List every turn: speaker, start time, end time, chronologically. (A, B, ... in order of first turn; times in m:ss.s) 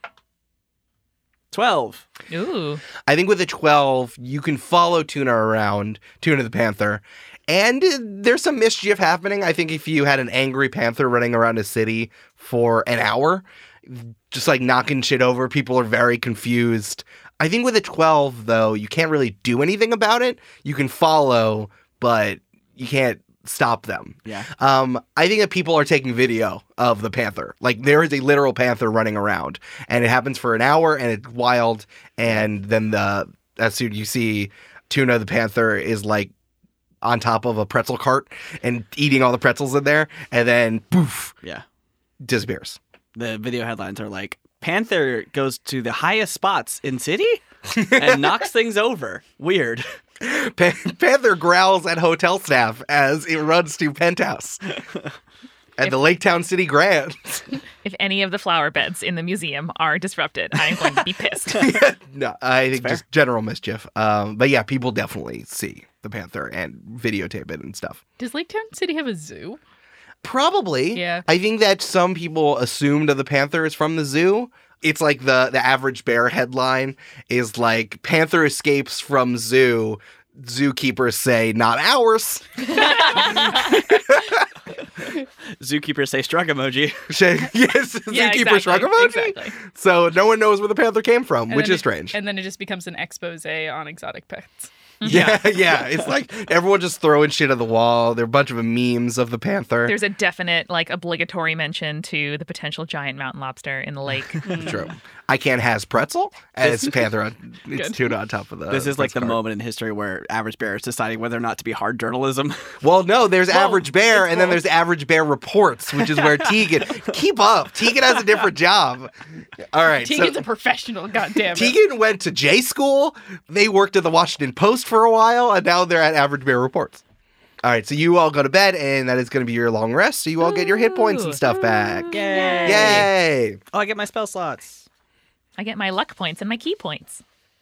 0:01.5-0:02.0 A
0:02.3-0:02.8 B
0:03.0-0:36.3 C
0:37.0-0:41.4 C
0:42.2-0:42.8 C
0:43.1-0:49.8 A
0:47.7-0:48.3 C
0:50.2-0:54.6 C
0:55.8-0:57.4 C
0:57.8-1:01.8 B
1:01.5-1:08.0 C
1:02.7-1:03.0 A
1:08.2-1:09.6 D
1:10.2-1:24.4 C
1:10.9-1:11.2 D
1:22.8-1:23.4 B
1:25.6-1:27.0 A
1:27.1-1:32.2 C
1:28.1-1:29.6 B
1:31.5-1:34.7 D
1:35.0-1:35.4 B
1:35.0-1:40.0 C
1:39.8-1:44.7 B
1:44.4-1:44.8 D
1:44.5-1:49.4 C
1:46.6-1:47.0 A
1:48.7-1:52.6 A
1:52.8-1:59.1 C
1:53.5-1:54.6 D
1:59.7-2:00.4 C
2:00.0-2:01.8 D
2:01.5-2:07.0 C
2:07.6-2:13.6 C
2:10.4-2:13.1 B
2:12.1-2:13.1 A
2:13.7-2:14.8 A
2:15.6-2:17.2 B